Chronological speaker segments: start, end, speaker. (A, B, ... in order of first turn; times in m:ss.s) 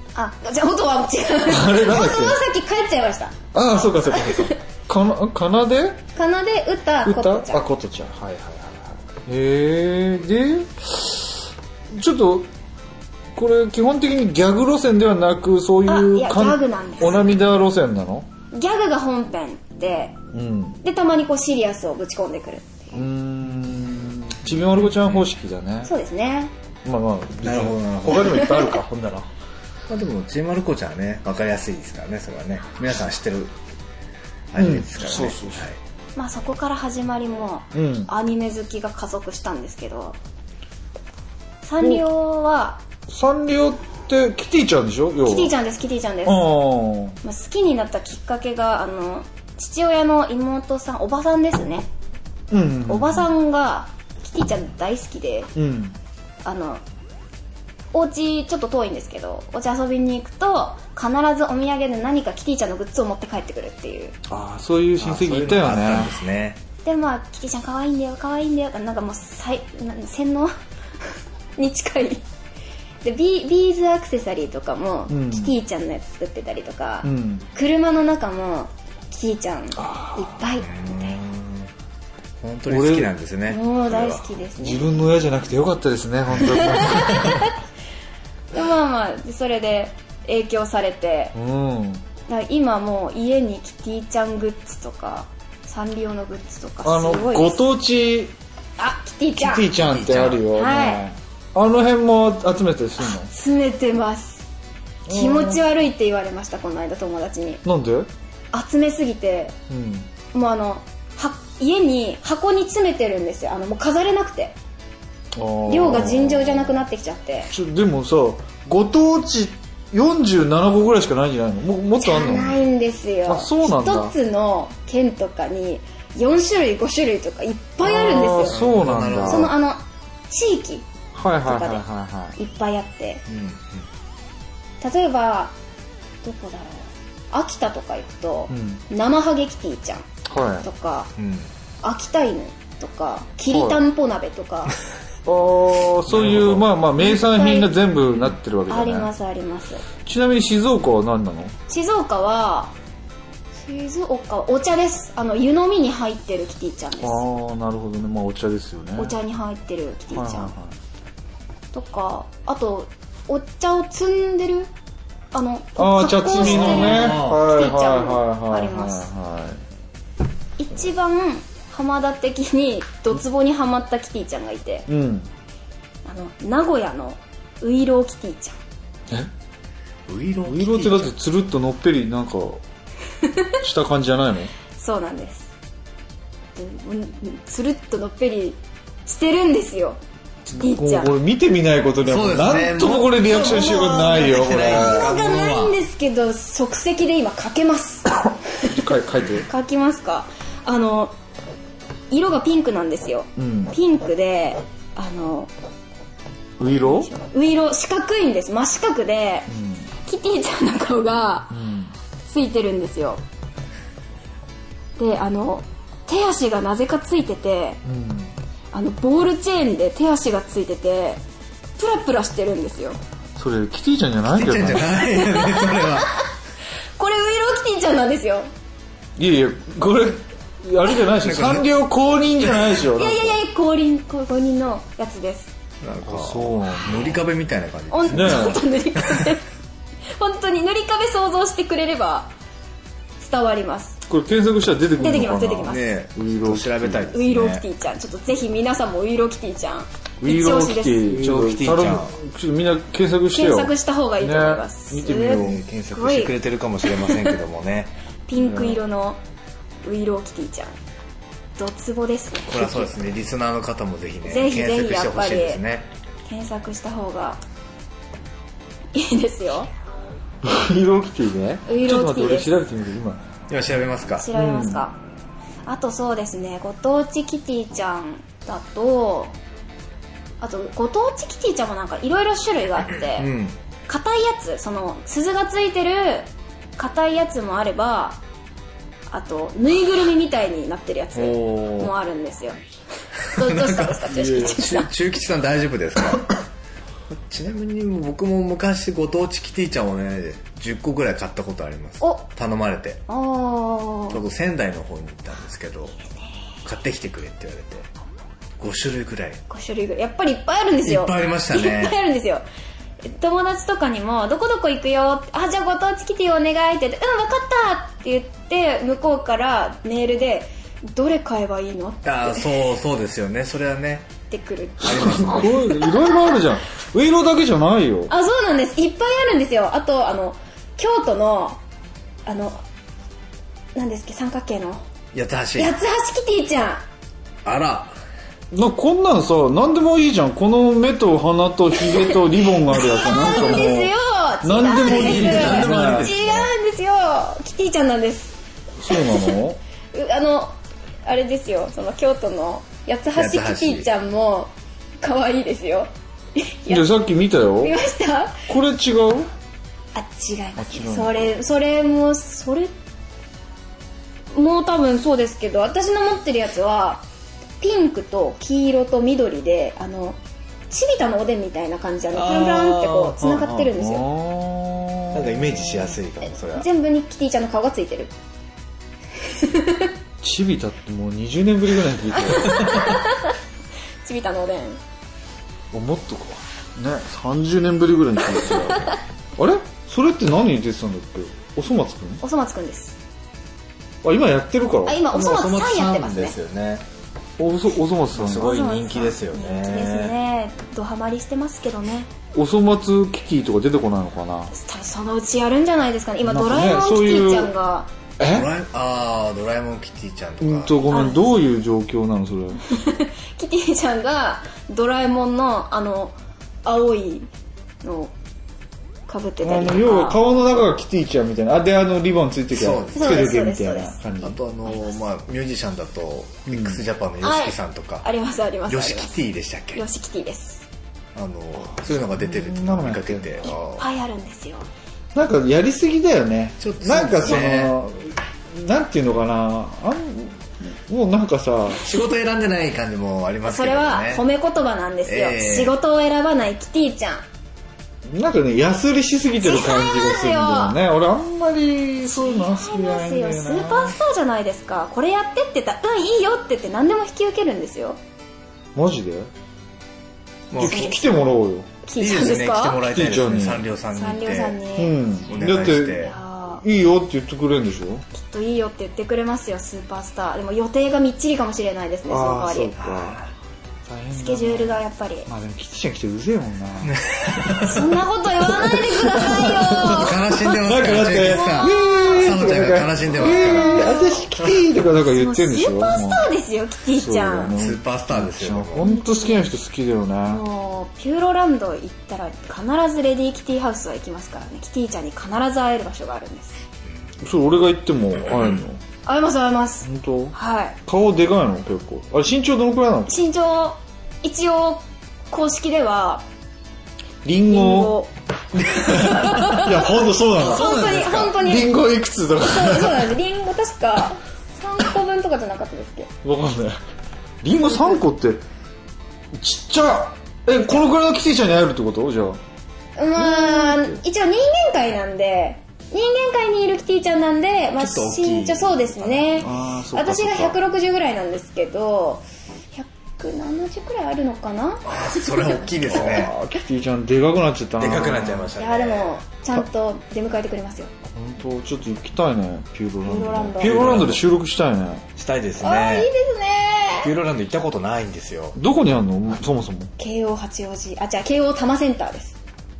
0:00.2-0:03.5 A
0:01.5-0:02.4 B
0:03.5-0:06.0 B
0:04.1-0:04.6 A
0:06.2-0:07.6 A
0:07.0-0:12.5 B
0:13.4-0:18.3 B
0:15.9-0:17.3 A
0:18.5-0:20.2 A
0:20.3-0:20.8 B
0:20.8-0:23.0 A
0:22.9-0:25.9 B
0:24.8-0:25.3 C
0:25.8-0:26.5 A
0:26.8-0:29.3 B
0:27.4-0:28.5 C
0:28.2-0:28.8 A
0:29.9-0:33.5 C
0:34.5-0:35.8 C
0:34.6-0:35.7 B
0:36.2-0:40.2 A
0:37.7-0:38.1 B
0:41.6-0:42.8 A
0:43.1-0:45.5 B
0:45.3-0:46.5 A
0:46.3-0:47.2 B
0:47.2-0:51.9 A
0:52.5-0:53.3 B
0:52.9-0:55.5 A
0:55.6-0:56.0 B
0:56.4-0:56.8 A
0:57.9-1:04.2 A
1:04.3-1:06.2 B
1:05.0-1:06.6 C
1:06.8-1:12.2 A
1:13.0-1:21.2 A
1:15.1-1:15.5 B
1:17.0-1:17.5 B
1:19.8-1:20.4 B
1:20.6-1:21.7 C
1:22.4-1:24.3 C
1:22.7-1:23.1 B
1:23.5-1:25.0 A
1:24.6-1:27.5 B
1:26.4-1:27.5 A
1:28.5-1:31.3 A
1:31.4-1:32.0 B
1:32.3-1:37.6 A
1:36.8-1:38.3 B
1:38.8-1:39.7 A
1:39.4-1:43.3 B
1:39.7-1:40.4 C
1:40.5-1:41.0 A
1:43.0-1:44.5 A
1:45.1-1:45.6 B
1:45.1-1:47.6 A
1:47.6-1:48.1 B
1:48.5-1:49.6 A
1:49.7-1:50.1 B
1:50.3-1:54.6 A
1:55.3-1:56.8 B
1:55.6-1:57.5 A
1:57.5-2:02.6 B
2:02.0-2:08.6 A
2:03.3-2:04.1 B
2:07.8-2:09.5 B
2:08.5-2:09.5 C
2:09.3-2:10.9 A
2:11.1-2:12.4 B
2:11.4-2:11.8 A
2:12.4-2:13.2 A
2:13.3-2:13.8 C
2:14.8-2:15.5 A
2:16.2-2:20.1 A
2:18.5-2:18.8 B
2:20.3-2:20.7 B
2:20.6-2:21.1 A
2:21.2-2:21.5 C
2:21.8-2:24.8 A
2:23.5-2:23.8 B
2:25.2-2:29.1 B
2:26.1-2:26.6 C
2:27.0-2:27.7 A
2:28.7-2:29.8 A
2:30.0-2:31.6 B
2:31.7-2:32.7 A
2:33.6-2:37.2 A
2:37.0-2:39.2 B
2:39.0-2:40.5 A
2:40.1-2:40.8 B
2:41.7-2:44.7 A
2:45.3-2:49.1 A
2:45.8-2:49.6 B
2:46.4-2:47.4 C
2:50.6-2:54.9 A
2:54.9-2:55.3 B
2:56.0-2:58.6 A
3:00.1-3:01.1 C
3:00.5-3:02.6 B
3:03.2-3:03.6 A
3:03.6-3:04.5 B
3:04.8-3:05.5 A
3:06.6-3:10.0 A
3:10.5-3:15.1 B
3:10.5-3:11.1 A
3:12.0-3:15.8 C
3:13.7-3:18.8 A
3:18.6-3:19.5 B
3:19.4-3:21.1 A
3:22.1-3:25.5 A
3:23.4-3:23.7 B
3:26.6-3:27.1 B
3:26.7-3:29.5 A
3:29.5-3:29.9 B
3:30.0-3:31.6 A
3:31.5-3:31.9 B
3:32.2-3:33.2 A
3:35.0-3:37.8 A
3:37.8-3:38.3 B
3:38.7-3:41.2 A
3:41.8-3:43.0 A
3:43.4-3:45.0 B
3:44.2-3:46.2 C
3:45.0-3:45.9 A
3:47.0-3:48.5 A
3:49.2-3:53.4 B
3:51.2-3:51.7 C
3:52.4-3:52.8 C
3:52.9-3:55.5 A
3:55.8-3:59.3 C
3:56.0-3:57.2 B
3:57.9-3:59.4 A
3:58.1-3:58.6 B
4:00.2-4:02.3 A
4:03.2-4:04.0 A
4:04.1-4:07.1 B
4:05.0-4:05.9 A
4:05.7-4:07.6 C
4:07.1-4:11.2 A
4:10.2-4:15.6 B
4:11.1-4:12.2 C
4:13.3-4:17.4 A
4:15.3-4:17.9 C
4:18.3-4:19.2 A
4:18.4-4:18.8 B
4:19.8-4:20.8 A
4:21.6-4:22.9 A
4:22.5-4:25.9 C
4:24.2-4:25.6 A
4:26.3-4:27.4 A
4:28.9-4:29.7 A
4:30.4-4:33.2 B
4:31.7-4:32.5 A
4:33.5-4:34.3 C
4:34.2-4:35.0 A
4:34.3-4:34.8 B
4:35.6-4:39.4 A
4:40.4-4:43.3 A
4:43.2-4:43.6 C
4:43.9-4:48.2 A
4:49.1-4:52.6 A
4:51.2-4:51.9 C
4:53.2-4:54.9 A
4:53.3-4:56.3 C
4:57.1-5:03.0 C
5:03.1-5:04.2 A
5:04.1-5:06.0 C
5:06.6-5:07.9 C
5:08.6-5:09.4 C
5:09.5-5:12.4 A
5:10.8-5:12.0 C
5:13.0-5:22.6 A
5:22.0-5:24.1 C
5:24.3-5:26.0 A
5:24.8-5:25.9 C
5:24.8-5:28.1 B
5:28.1-5:31.6 A
5:32.3-5:32.6 A
5:33.8-5:34.8 A
5:35.1-5:35.7 C
5:35.6-5:36.8 A
5:37.4-5:37.9 C
5:38.5-5:46.1 B
5:42.0-5:48.4 A
5:44.8-5:46.5 C
5:48.8-5:49.6 B
5:48.9-5:49.4 A
5:49.9-5:56.9 A
5:53.2-5:53.9 C
5:56.7-5:57.8 B
5:57.6-5:58.4 A
5:58.5-5:59.3 B
6:00.0-6:02.7 A
6:00.6-6:01.4 B
6:04.3-6:07.0 A
6:07.6-6:10.2 A
6:10.7-6:14.1 A
6:12.1-6:13.7 C
6:13.7-6:16.0 B
6:15.1-6:16.7 C
6:16.5-6:18.1 A
6:19.2-6:19.9 A
6:20.2-6:22.6 B
6:22.2-6:23.3 A
6:22.6-6:22.9 C
6:24.0-6:24.8 A
6:25.7-6:32.2 B
6:28.5-6:29.0 A
6:32.2-6:33.0 A
6:34.0-6:35.0 B
6:34.9-6:36.4 A
6:35.1-6:36.8 C
6:37.4-6:38.5 B
6:38.1-6:40.2 C
6:38.3-6:42.1 A
6:42.3-6:44.5 B
6:44.5-6:47.9 A
6:46.2-6:47.5 B
6:48.2-6:48.5 B
6:48.3-6:50.8 C
6:50.4-6:52.6 B
6:50.9-6:51.4 A
6:52.7-6:57.3 A
6:57.8-6:58.1 A
6:59.1-7:00.2 A
6:59.4-7:04.4 B
7:02.5-7:03.4 C
7:02.9-7:04.0 A
7:04.2-7:08.1 C
7:04.7-7:05.0 A
7:06.5-7:06.8 B
7:07.2-7:09.2 A
7:08.7-7:09.8 C
7:09.7-7:10.7 A
7:11.2-7:13.9 C
7:11.9-7:13.4 B
7:13.4-7:14.7 A
7:15.2-7:21.8 B
7:16.6-7:17.8 C
7:21.8-7:24.2 C
7:23.5-7:27.2 A
7:25.1-7:25.8 C
7:28.1-7:34.0 B
7:29.4-7:30.8 A
7:32.0-7:38.0 A
7:38.8-7:39.3 B
7:40.5-7:41.1 C
7:40.6-7:41.7 B
7:40.6-7:41.3 A
7:41.8-7:42.8 A
7:42.0-7:44.6 C
7:42.8-7:43.7 B
7:43.9-7:45.0 A
7:44.8-7:46.1 B
7:45.3-7:46.2 C
7:46.0-7:46.6 A
7:46.6-7:48.0 B
7:48.1-7:52.8 A
7:52.1-7:53.2 B
7:52.8-7:53.3 C
7:53.9-7:57.0 B
7:54.1-7:55.3 A
7:56.8-7:57.9 C
7:57.6-8:00.4 A
7:58.4-8:06.2 B
7:59.6-8:04.0 C
8:01.2-8:02.3 A
8:03.2-8:04.3 A
8:05.1-8:07.6 A
8:06.9-8:10.4 B
8:07.6-8:08.9 C
8:08.8-8:09.5 A
8:10.3-8:16.6 A
8:17.2-8:18.8 B
8:18.3-8:18.6 C
8:19.1-8:20.8 A
8:19.8-8:23.1 B
8:23.1-8:26.2 A
8:27.2-8:28.0 B
8:27.5-8:28.1 A
8:28.7-8:31.8 A
8:28.8-8:33.2 B
8:28.9-8:31.4 C
8:32.4-8:36.1 A
8:36.2-8:36.8 B
8:37.4-8:38.4 B
8:39.3-8:42.4 B
8:43.0-8:55.7 A
8:43.2-8:44.0 B
8:47.8-8:49.4 C
8:49.4-8:50.6 B
8:54.9-8:56.3 C
8:55.8-8:58.5 B
8:57.8-8:59.2 C
8:58.6-9:00.9 A
9:01.2-9:05.1 B
9:03.0-9:04.0 A
9:03.6-9:04.3 C
9:05.2-9:06.1 C
9:05.6-9:07.1 A
9:07.0-9:08.6 C
9:08.6-9:09.9 B
9:10.0-9:12.4 A